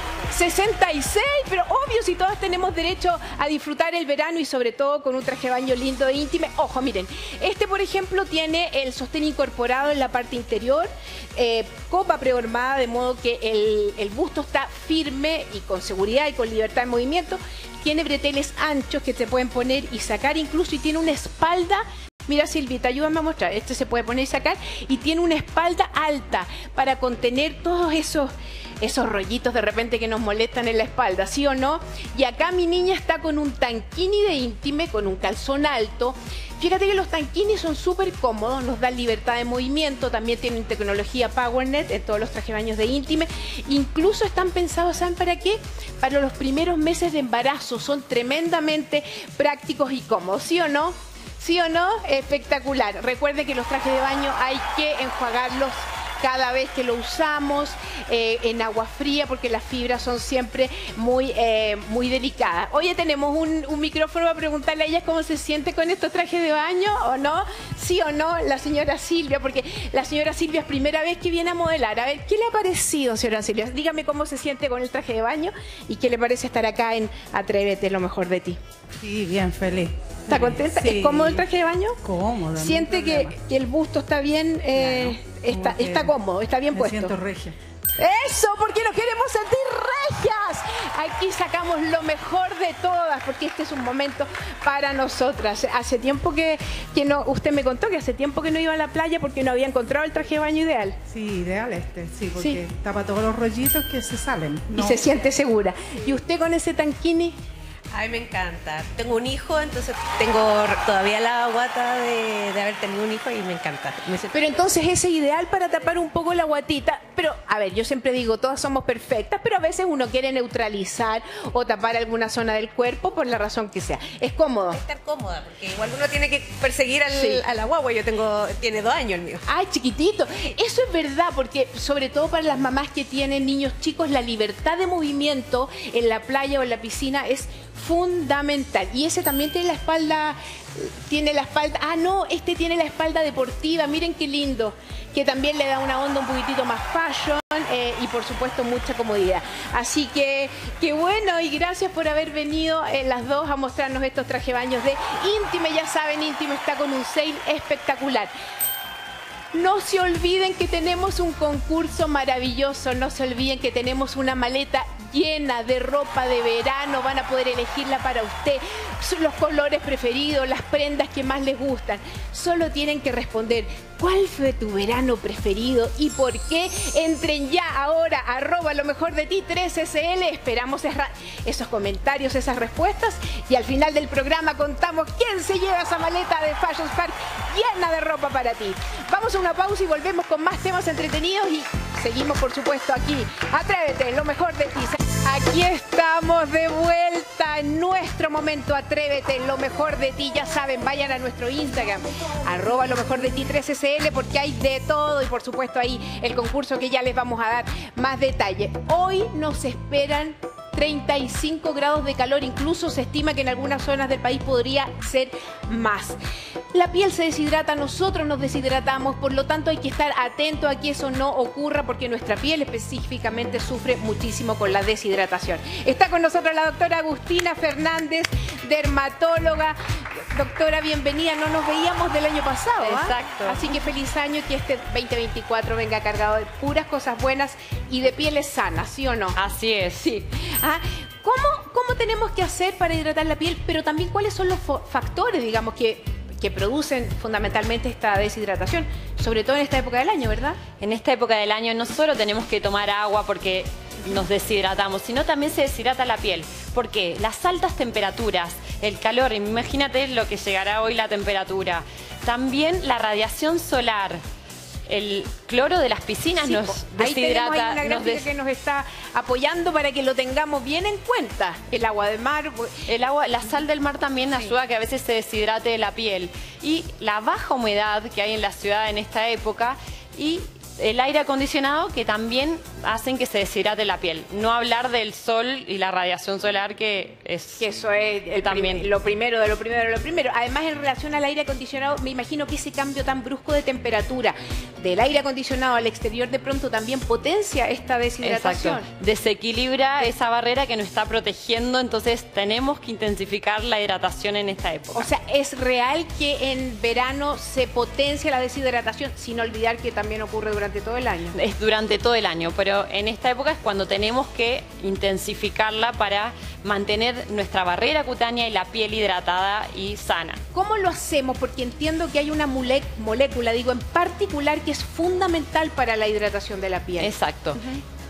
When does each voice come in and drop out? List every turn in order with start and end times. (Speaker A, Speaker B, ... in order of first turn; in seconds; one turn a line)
Speaker A: 0.3-78.6
Speaker B: 79.0-81.5
Speaker A: 80.3-82.0
Speaker B: 82.0-83.3
Speaker A: 82.5-87.1
Speaker B: 84.7-86.1
Speaker B: 86.7-87.5
Speaker A: 88.0-101.0
Speaker B: 101.1-105.0
Speaker A: 104.7-107.4
Speaker C: 107.9-114.5
Speaker A: 114.3-124.8
Speaker C: 124.7-129.4
Speaker A: 127.1-127.4
Speaker A: 129.5-158.3
Speaker A: 159.5-216.2
Speaker A: 216.7-239.4
Speaker D: 232.8-233.6
Speaker D: 239.3-240.1
Speaker A: 240.0-250.6
Speaker D: 250.8-264.2
Speaker D: 264.9-268.3
Speaker A: 266.4-272.8
Speaker D: 272.9-287.6
Speaker A: 287.6-298.9
Speaker D: 288.4-288.9
Speaker D: 298.2-305.1
Speaker A: 304.9-311.4
Speaker D: 311.3-320.4
Speaker A: 320.5-327.8
Speaker D: 327.0-327.6